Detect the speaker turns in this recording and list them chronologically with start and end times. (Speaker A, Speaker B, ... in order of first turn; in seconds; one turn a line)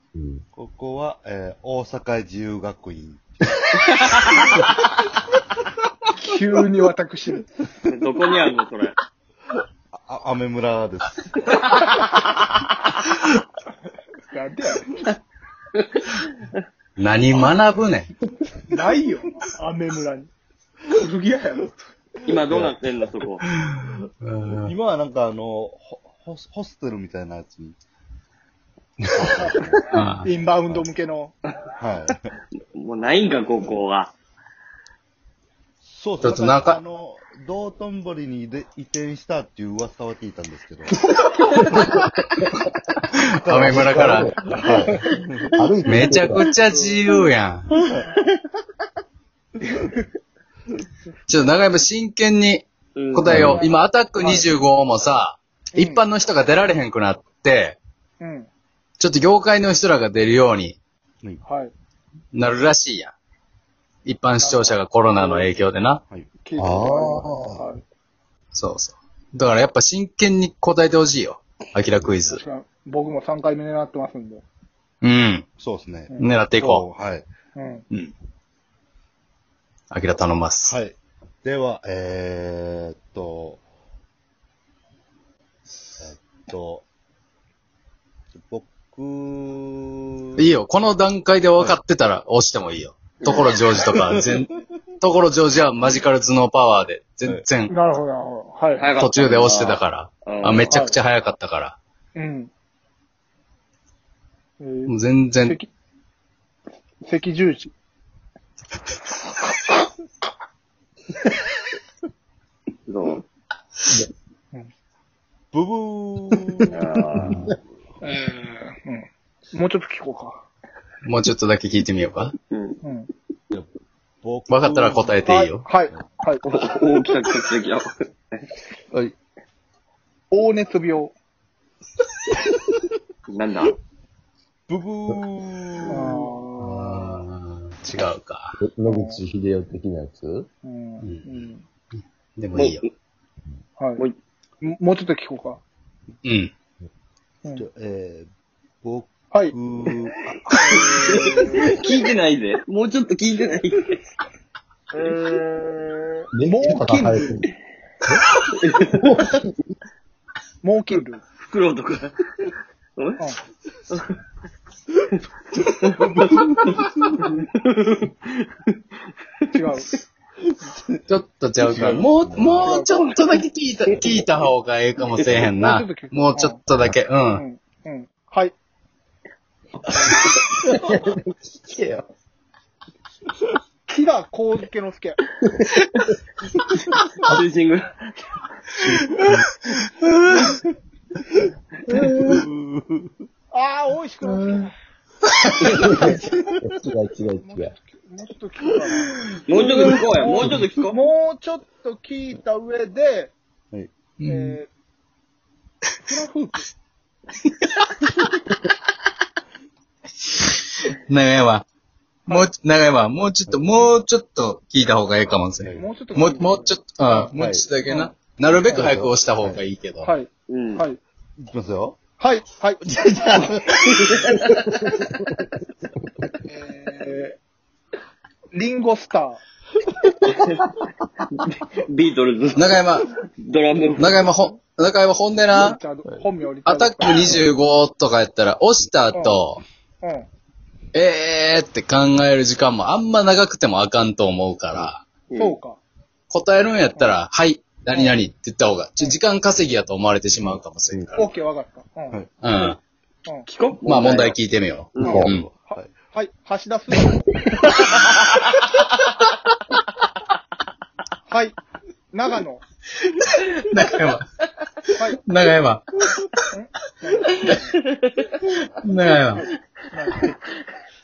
Speaker A: 0.1-0.4
Speaker B: 0.6-3.4
Speaker C: 3.9-4.6
Speaker D: 6.2-7.5
Speaker C: 7.9-8.9
Speaker B: 9.9-11.6
Speaker C: 11.6-12.5
Speaker D: 14.3-14.9
Speaker C: 15.8-16.5
Speaker E: 17.0-18.1
Speaker D: 18.7-20.3
Speaker D: 21.0-21.8
Speaker C: 22.2-23.4
Speaker B: 22.4-22.8
Speaker E: 23.5-24.7
Speaker B: 24.5-27.8
Speaker B: 29.2-30.0
Speaker D: 29.3-31.3
Speaker E: 29.9-30.3
Speaker B: 31.8-32.3
Speaker C: 32.7-34.1
Speaker B: 35.8-41.0
Speaker E: 36.2-36.8
Speaker E: 43.2-44.3
Speaker A: 43.5-45.0
Speaker B: 43.5-45.6
Speaker A: 45.6-46.5
Speaker E: 45.9-47.7
Speaker E: 51.3-57.8
Speaker C: 53.0-53.4
Speaker A: 53.3-53.6
Speaker D: 53.4-54.5
Speaker D: 55.8-56.0
Speaker D: 58.2-58.5
Speaker E: 59.0-60.8
Speaker D: 61.4-61.7
Speaker E: 62.3-63.1
Speaker E: 64.0-66.0
Speaker D: 64.4-65.5
Speaker B: 66.1-67.6
Speaker D: 66.4-67.8
Speaker E: 68.5-72.4
Speaker D: 72.3-74.4
Speaker E: 75.0-75.5
Speaker B: 75.6-77.2
Speaker E: 76.2-76.9
Speaker D: 77.5-77.9
Speaker E: 79.9-80.8
Speaker B: 80.6-83.6
Speaker B: 86.0-86.9
Speaker B: 88.4-90.5
Speaker E: 90.4-94.5
Speaker C: 93.2-93.5
Speaker B: 93.7-94.5
Speaker E: 95.0-97.7
Speaker D: 97.7-99.0
Speaker C: 98.8-100.8
Speaker E: 99.0-101.8
Speaker D: 100.7-101.0
Speaker D: 102.1-102.5
Speaker D: 104.6-105.7
Speaker E: 104.9-105.6
Speaker D: 107.0-107.7
Speaker D: 109.5-109.9
Speaker C: 112.9-113.2
Speaker B: 115.5-117.0
Speaker C: 116.7-117.4
Speaker E: 117.2-117.5
Speaker D: 118.0-120.5
Speaker E: 121.0-122.3
Speaker C: 122.5-122.8
Speaker D: 122.8-123.1
Speaker B: 124.2-125.2
Speaker E: 124.5-125.7
Speaker D: 125.2-126.5
Speaker C: 126.5-128.4
Speaker D: 130.3-131.1
Speaker C: 133.3-133.8
Speaker B: 134.7-136.4
Speaker D: 135.9-137.1
Speaker E: 136.6-138.5
Speaker A: 138.6-140.5
Speaker D: 138.9-139.2
Speaker D: 140.6-141.6
Speaker E: 141.0-141.4
Speaker E: 142.4-142.8
Speaker C: 142.6-142.9
Speaker D: 143.8-144.0
Speaker D: 144.6-145.6
Speaker E: 146.2-146.5
Speaker B: 147.6-148.3
Speaker B: 148.8-151.7
Speaker D: 150.6-151.7
Speaker C: 150.9-154.0
Speaker D: 154.9-157.3
Speaker A: 156.3-157.4
Speaker C: 158.6-159.1
Speaker A: 158.9-159.7
Speaker D: 160.6-161.2
Speaker C: 161.4-162.1
Speaker C: 163.0-163.2
Speaker C: 163.9-164.1
Speaker B: 165.6-167.2
Speaker C: 165.6-166.4
Speaker C: 167.2-168.8
Speaker D: 169.5-169.9
Speaker B: 170.7-171.0
Speaker E: 171.1-177.4
Speaker B: 171.6-172.0
Speaker A: 172.2-172.6
Speaker D: 172.6-173.0
Speaker D: 175.4-176.6
Speaker D: 177.3-178.5
Speaker D: 179.9-180.4
Speaker A: 180.8-182.0
Speaker D: 183.9-185.2
Speaker C: 187.2-188.5
Speaker A: 188.9-189.4
Speaker E: 189.2-190.5
Speaker E: 191.9-192.4
Speaker B: 192.2-193.2
Speaker D: 193.5-194.7
Speaker E: 194.3-194.7
Speaker B: 195.6-196.6
Speaker A: 195.7-197.7
Speaker D: 195.8-196.2
Speaker D: 197.4-203.3
Speaker C: 199.5-201.0
Speaker E: 204.2-204.6
Speaker D: 204.2-204.7
Speaker D: 206.0-206.7
Speaker E: 207.5-207.9
Speaker E: 210.2-211.6
Speaker E: 212.3-220.1
Speaker B: 215.6-215.8
Speaker D: 215.8-217.3
Speaker B: 217.3-217.7
Speaker D: 217.9-218.1
Speaker B: 218.6-219.6
Speaker D: 218.7-219.0
Speaker D: 220.0-221.0
Speaker C: 220.5-220.8
Speaker B: 221.4-222.0
Speaker D: 222.2-222.8
Speaker B: 222.8-224.7
Speaker C: 223.5-224.6
Speaker A: 224.6-225.1
Speaker D: 226.4-227.4
Speaker D: 228.5-229.4
Speaker C: 230.2-230.8
Speaker C: 231.3-232.8
Speaker E: 232.6-233.1
Speaker C: 233.4-234.2
Speaker E: 234.0-235.8
Speaker D: 235.5-237.5
Speaker E: 236.6-239.6
Speaker D: 239.1-239.4
Speaker D: 240.0-240.3
Speaker E: 240.9-245.0
Speaker C: 245.3-245.6
Speaker D: 245.3-245.8
Speaker E: 246.3-251.3
Speaker D: 247.9-248.2
Speaker D: 251.1-252.2
Speaker E: 252.4-252.8
Speaker C: 253.5-254.4
Speaker E: 253.9-255.5
Speaker C: 254.9-255.2
Speaker D: 255.0-257.2
Speaker A: 255.0-255.3
Speaker B: 255.2-255.9
Speaker D: 261.3-261.6
Speaker D: 262.1-262.6
Speaker E: 263.0-264.2
Speaker D: 264.9-265.2
Speaker E: 265.2-266.3
Speaker D: 266.5-267.8
Speaker C: 267.4-268.4
Speaker E: 268.8-269.4
Speaker D: 269.9-270.4